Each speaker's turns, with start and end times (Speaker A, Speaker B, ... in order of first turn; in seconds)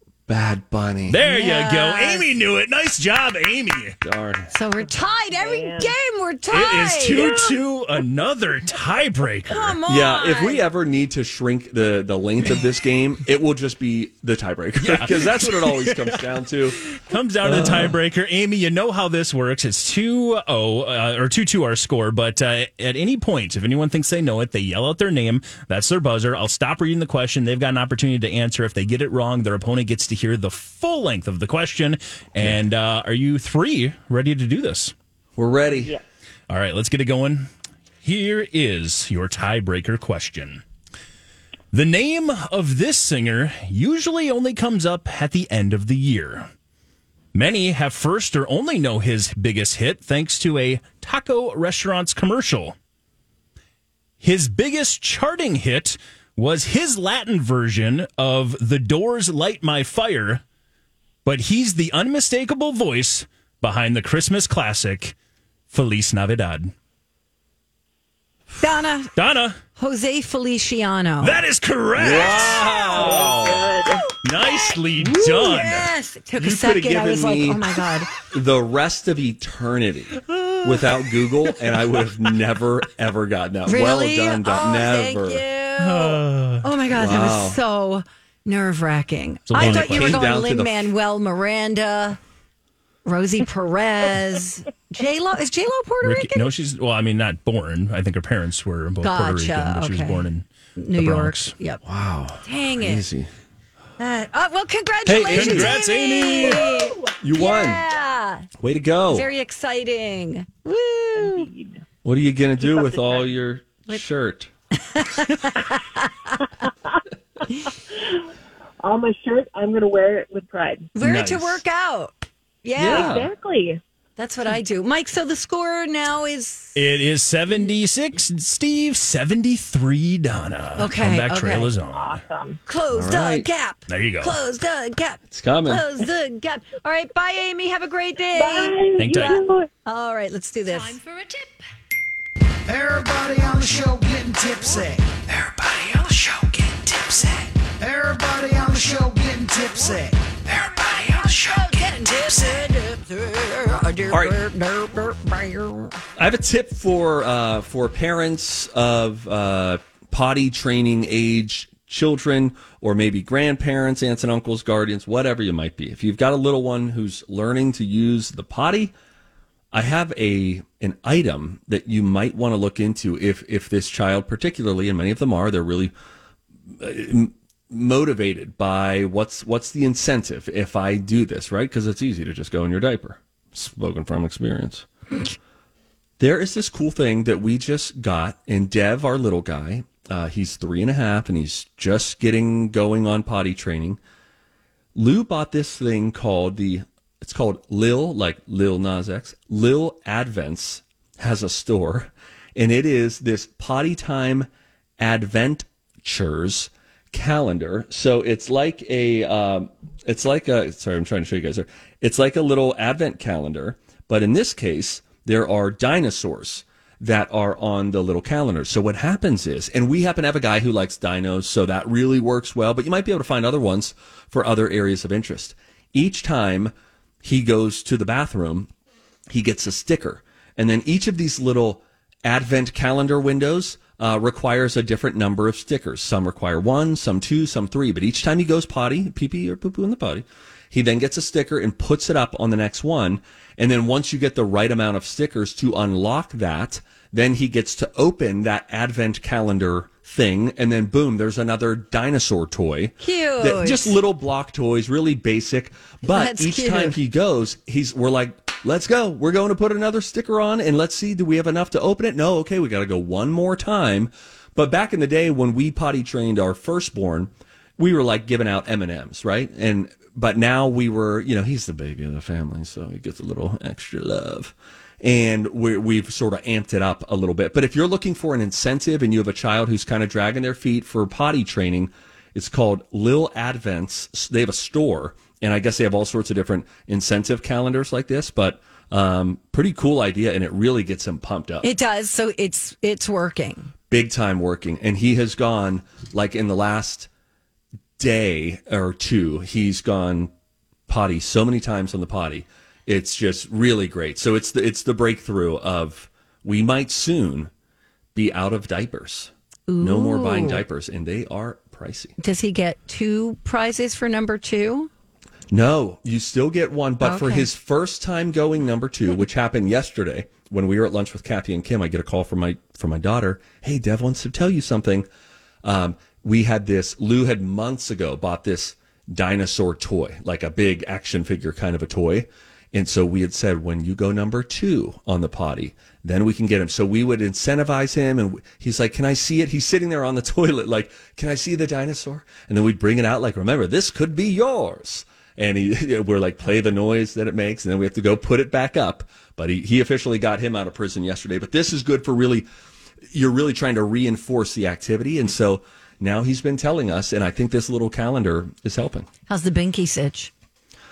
Speaker A: 0.3-1.2, 4.0-4.5, 9.9-16.9, 17.4-18.0, 35.4-36.0, 72.0-73.8, 76.4-85.5, 86.9-87.6, 89.5-90.9, 101.8-103.3, 105.1-105.8, 107.2-107.8, 108.6-109.3, 112.0-114.5, 121.0-121.6, 122.8-123.3, 132.9-133.5, 135.3-135.9, 154.1-154.4, 156.2-168.9, 169.7-175.9, 176.8-184.9, 186.2-194.0, 194.9-228.7, 229.3-291.7, 293.9-297.1, 298.0-300.3, 300.9-307.5, 308.1-312.2, 315.5-325.1, 325.6-352.5, 353.1-359.1
Speaker B: 1.1-4.0, 6.5-9.8, 14.8-16.2, 16.8-34.9, 36.5-37.5, 38.0-40.6, 41.7-46.5, 47.3-52.8, 54.2-60.4, 61.2-65.2, 65.7-66.7, 69.2-69.6, 71.2-72.9, 74.2-75.9, 80.2-81.0, 85.8-86.7, 89.5-90.3, 96.0-100.5, 101.0-101.5, 105.2-106.7, 126.8-132.2, 133.9-134.4, 139.0-139.4
Speaker C: 1.2-2.3, 4.5-7.5, 9.5-10.6, 68.6-69.1, 69.8-71.4, 74.4-78.1, 83.7-92.2, 93.0-96.5, 99.0-101.8, 102.4-103.0, 104.0-108.5, 109.1-111.5, 114.9-116.1, 121.0-123.2, 124.2-126.8, 130.8-131.7, 132.7-139.2, 139.8-141.4, 150.6-156.0, 253.0-254.0, 256.1-257.0, 291.6-293.7, 309.7-310.6, 312.2-314.9, 317.0-317.5, 359.3-360.3
Speaker D: 5.3-6.0, 35.8-36.0, 72.7-74.1, 106.6-107.1, 111.2-111.8, 112.7-113.2, 118.8-120.9, 122.8-123.8, 131.9-132.6, 138.3-139.7
Speaker E: 142.7-151.6